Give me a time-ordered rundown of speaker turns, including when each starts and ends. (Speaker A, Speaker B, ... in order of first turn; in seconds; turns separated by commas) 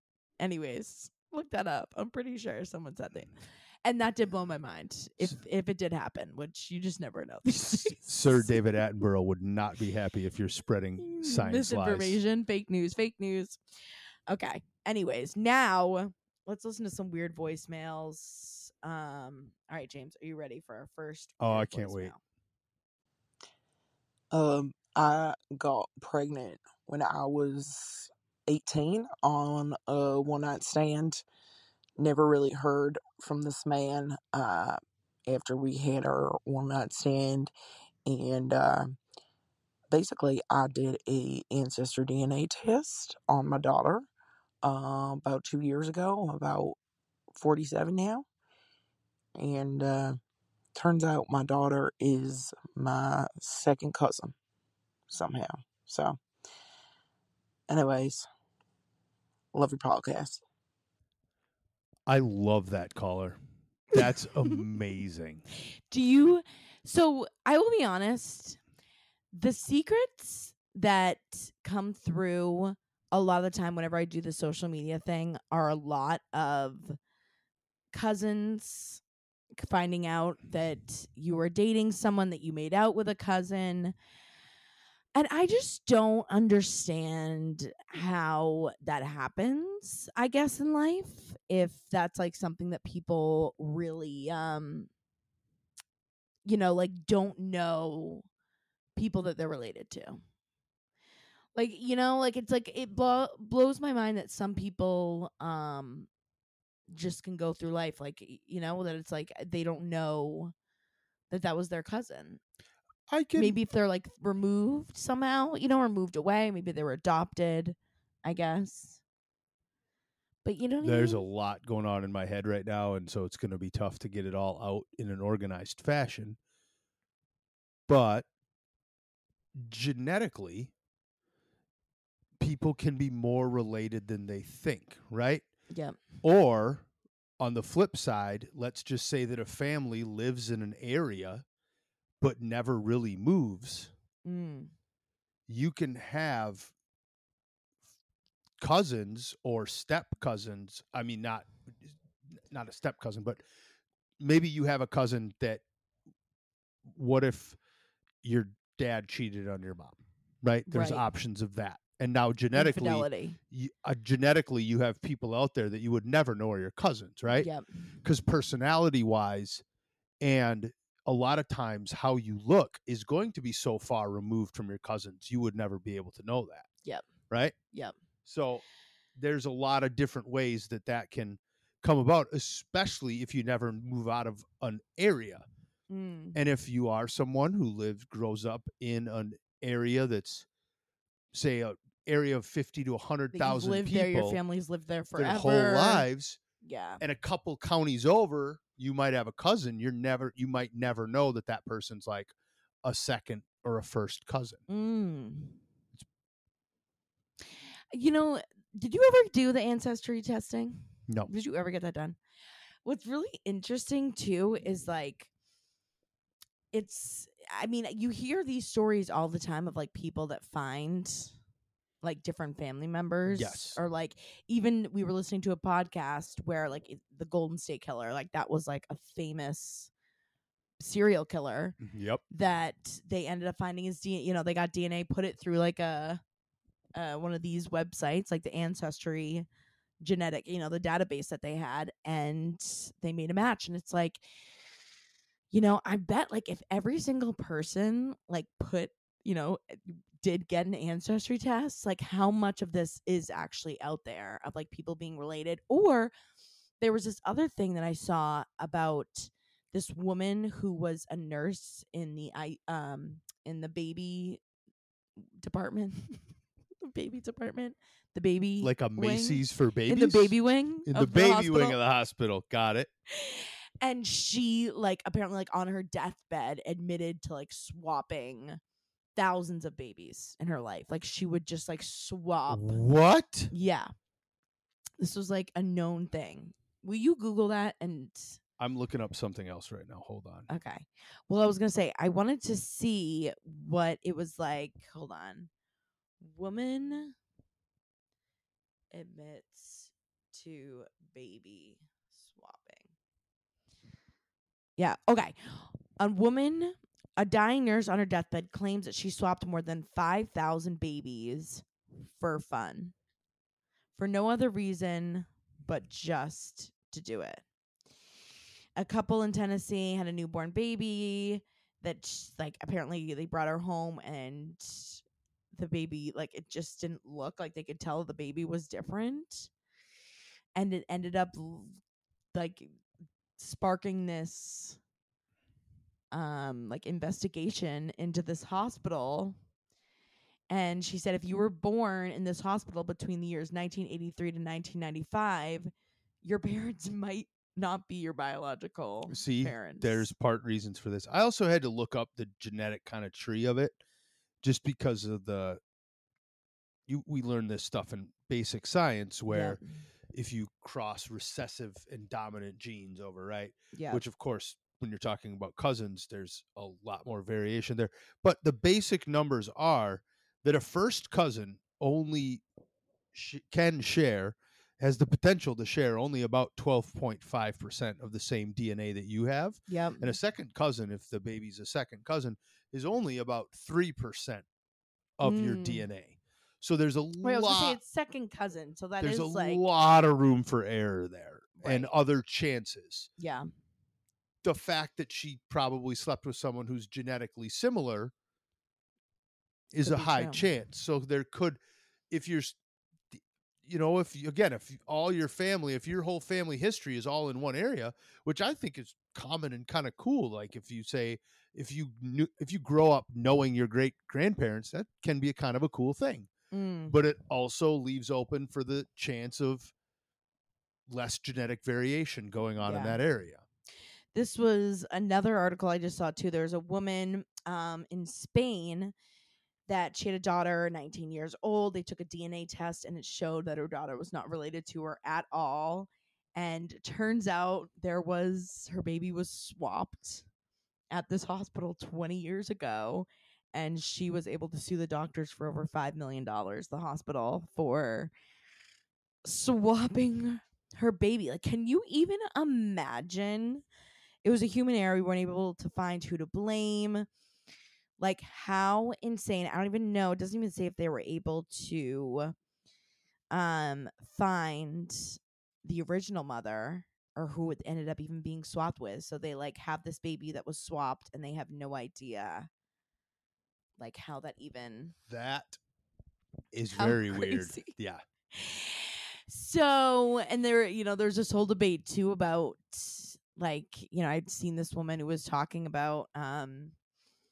Speaker A: 0.4-8.6, Speaker B: 7.7-12.2, Speaker A: 11.0-13.6, Speaker A: 14.3-22.2, Speaker B: 21.4-22.1, Speaker C: 24.3-31.2, Speaker C: 32.0-37.5, Speaker C: 38.0-39.0, Speaker C: 39.9-44.1, Speaker C: 44.6-46.8, Speaker C: 47.4-48.2, Speaker C: 49.4-50.2, Speaker C: 50.8-54.3, Speaker C: 55.1-56.2, Speaker C: 57.7-58.3, Speaker C: 59.5-60.4, Speaker B: 62.1-63.4, Speaker B: 63.9-65.4, Speaker A: 65.9-68.6, Speaker A: 69.3-77.0, Speaker A: 77.9-79.0, Speaker A: 79.6-83.9, Speaker A: 85.1-94.9, Speaker A: 96.4-98.2, Speaker A: 99.0-100.2, Speaker A: 101.5-106.1, Speaker A: 106.9-110.5, Speaker A: 111.3-112.4, Speaker B: 113.1-113.6, Speaker A: 113.3-119.0, Speaker A: 120.4-121.2, Speaker B: 120.8-126.4, Speaker B: 127.9-128.2, Speaker B: 129.5-130.7, Speaker B: 132.4-135.4, Speaker A: 135.7-136.0, Speaker B: 136.2-136.8, Speaker B: 137.4-141.4, Speaker B: 142.2-143.9, Speaker A: 144.2-144.7, Speaker B: 145.5-146.7, Speaker B: 148.6-153.4, Speaker B: 154.2-155.6, Speaker B: 156.8-157.6, Speaker B: 158.2-167.5, Speaker A: 160.7-161.0, Speaker A: 162.5-163.4, Speaker A: 167.3-167.6, Speaker B: 168.0-169.6, Speaker B: 170.2-176.7, Speaker B: 177.3-177.5, Speaker B: 178.2-178.6, Speaker B: 179.2-185.4, Speaker A: 185.9-186.4, Speaker B: 186.3-190.4, Speaker B: 191.3-194.4, Speaker A: 193.3-196.1, Speaker B: 195.1-196.4, Speaker A: 196.6-197.0, Speaker B: 197.0-202.3, Speaker B: 202.8-204.6, Speaker A: 204.7-205.6, Speaker A: 207.9-212.2, Speaker A: 212.8-215.3, Speaker A: 216.7-221.3, Speaker A: 222.0-229.9, Speaker B: 223.3-223.8, Speaker A: 230.8-231.8, Speaker B: 231.8-232.2, Speaker A: 232.3-236.2, Speaker A: 236.9-239.4, Speaker A: 240.0-244.2, Speaker A: 245.5-256.1, Speaker A: 256.8-264.4, Speaker A: 265.4-266.2, Speaker A: 266.8-271.8, Speaker B: 268.6-272.9, Speaker A: 273.1-278.6, Speaker A: 279.1-282.8, Speaker B: 282.5-283.5, Speaker A: 283.5-283.9, Speaker A: 285.0-288.4, Speaker B: 288.6-290.5, Speaker A: 290.5-295.5, Speaker A: 296.2-297.1, Speaker A: 298.9-302.9, Speaker A: 304.8-312.9, Speaker A: 313.9-317.4, Speaker A: 318.8-325.0, Speaker A: 325.5-329.5, Speaker A: 330.5-331.8, Speaker A: 332.3-332.7, Speaker A: 333.4-334.8, Speaker A: 336.1-339.4, Speaker A: 340.5-345.7, Speaker A: 346.2-350.1, Speaker B: 349.1-353.8, Speaker B: 354.4-355.6, Speaker B: 356.9-359.6, Speaker A: 359.3-359.6, Speaker B: 360.1-372.4, Speaker A: 363.7-364.0, Speaker B: 373.1-384.4, Speaker A: 379.7-380.1, Speaker B: 385.2-387.8, Speaker A: 385.2-385.9, Speaker A: 387.2-389.6, Speaker B: 389.0-393.1, Speaker A: 391.6-391.9, Speaker A: 393.2-393.5, Speaker B: 394.4-398.1, Speaker B: 399.7-402.6, Speaker A: 399.8-400.4, Speaker B: 403.1-416.3, Speaker A: 416.5-416.9, Speaker B: 416.9-419.7, Speaker B: 420.9-423.4, Speaker A: 422.6-423.0, Speaker A: 424.1-428.9, Speaker A: 429.7-440.2, Speaker A: 440.9-448.1, Speaker A: 449.2-453.6, Speaker A: 454.2-457.1, Speaker A: 458.0-462.3, Speaker A: 463.3-472.5, Speaker A: 473.8-474.9, Speaker B: 475.1-475.6, Speaker B: 476.5-478.0, Speaker A: 476.7-477.7, Speaker A: 478.3-486.7